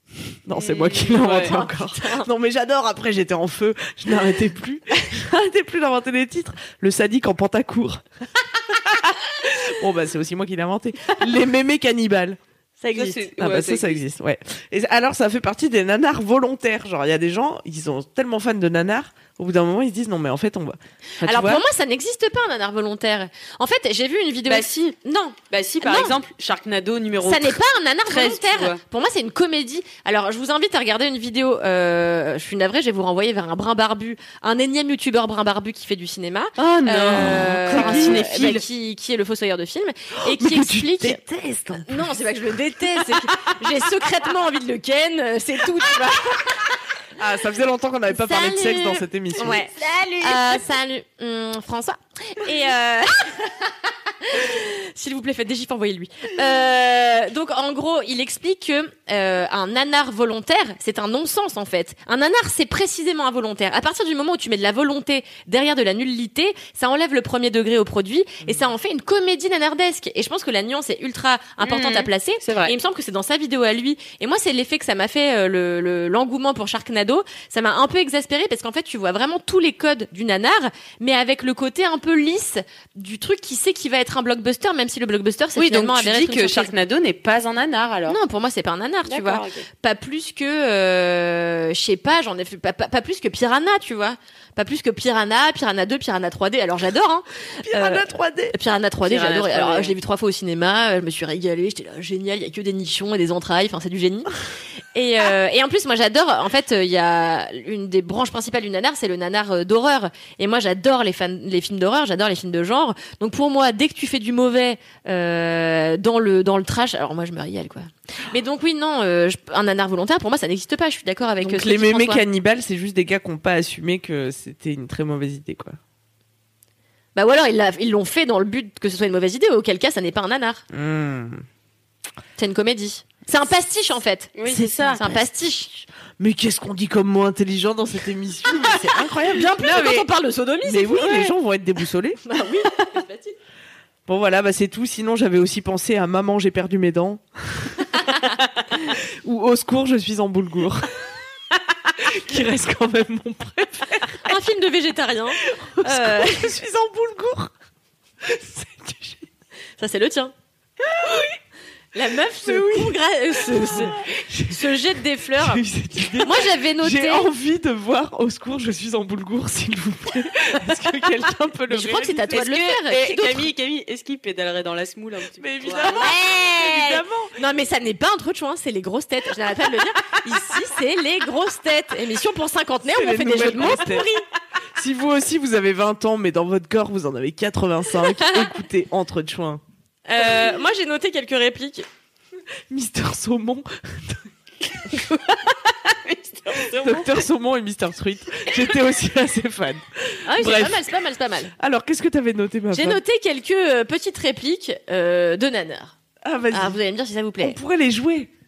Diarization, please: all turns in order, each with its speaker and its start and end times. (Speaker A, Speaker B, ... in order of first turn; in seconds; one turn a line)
Speaker A: 0.5-8.0
Speaker B: 0.5-1.5
Speaker C: 1.2-2.3
Speaker A: 8.7-12.4
Speaker C: 12.8-13.2
Speaker B: 12.9-14.0
Speaker A: 13.3-21.6
Speaker C: 21.2-26.1
Speaker B: 24.4-24.9
Speaker B: 25.5-28.8
Speaker C: 27.2-41.2
Speaker B: 36.6-38.6
Speaker A: 37.1-38.2
Speaker A: 40.2-42.2
Speaker C: 41.9-46.8
Speaker A: 43.0-43.6
Speaker A: 47.2-49.6
Speaker C: 48.1-86.7
Speaker B: 49.8-50.3
Speaker B: 71.6-72.7
Speaker B: 85.5-88.2
Speaker C: 88.1-104.3
Speaker B: 89.0-89.7
Speaker A: 97.6-98.5
Speaker B: 99.0-99.9
Speaker C: 104.9-122.2
Speaker A: 121.4-125.8
Speaker C: 127.1-130.6
Speaker A: 130.7-131.4
Speaker C: 132.4-134.3
Speaker B: 134.3-135.0
Speaker A: 134.5-135.2
Speaker C: 134.9-135.8
Speaker A: 136.2-140.1
Speaker C: 138.5-141.3
Speaker A: 140.6-142.2
Speaker C: 142.2-143.3
Speaker A: 144.1-147.9
Speaker A: 148.8-150.9
Speaker A: 151.9-154.3
Speaker C: 154.2-156.6
Speaker A: 155.4-157.5
Speaker A: 158.2-159.2
Speaker C: 159.8-160.3
Speaker A: 160.8-161.3
Speaker C: 161.9-165.6
Speaker A: 162.4-164.8
Speaker A: 165.3-172.6
Speaker C: 166.2-167.3
Speaker C: 171.7-173.5
Speaker B: 172.6-176.0
Speaker A: 175.4-177.3
Speaker C: 175.8-184.2
Speaker A: 182.9-184.1
Speaker A: 184.8-189.6
Speaker C: 188.1-188.5
Speaker C: 190.1-191.8
Speaker A: 192.7-194.2
Speaker B: 195.9-197.2
Speaker A: 196.7-200.9
Speaker C: 200.2-201.5
Speaker A: 201.6-203.0
Speaker C: 202.7-205.9
Speaker A: 206.2-206.8
Speaker C: 206.5-207.6
Speaker A: 207.4-208.3